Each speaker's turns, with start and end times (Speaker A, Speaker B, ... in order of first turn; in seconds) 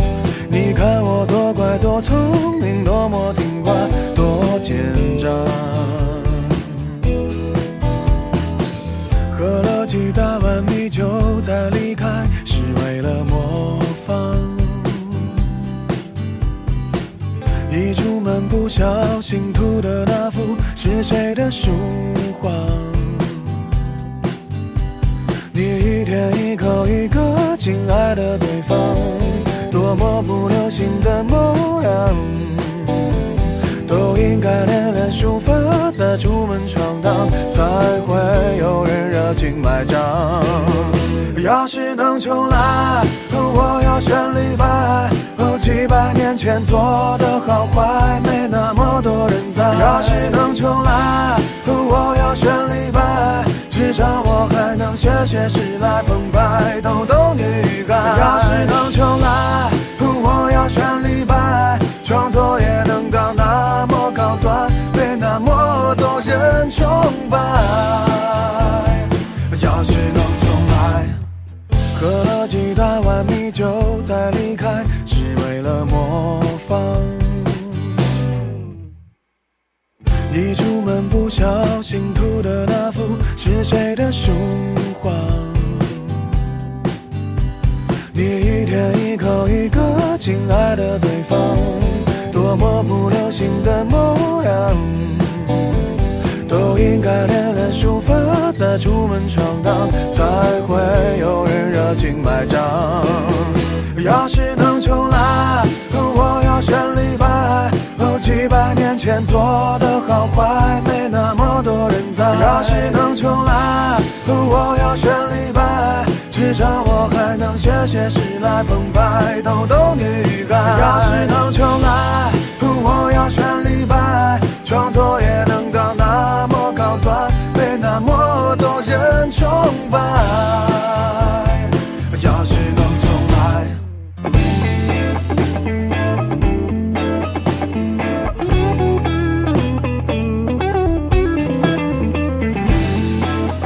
Speaker A: 0.5-7.0, 9.3-15.7, 17.6-23.7, 25.5-71.2, 71.9-78.0, 80.3-86.3, 88.1-133.8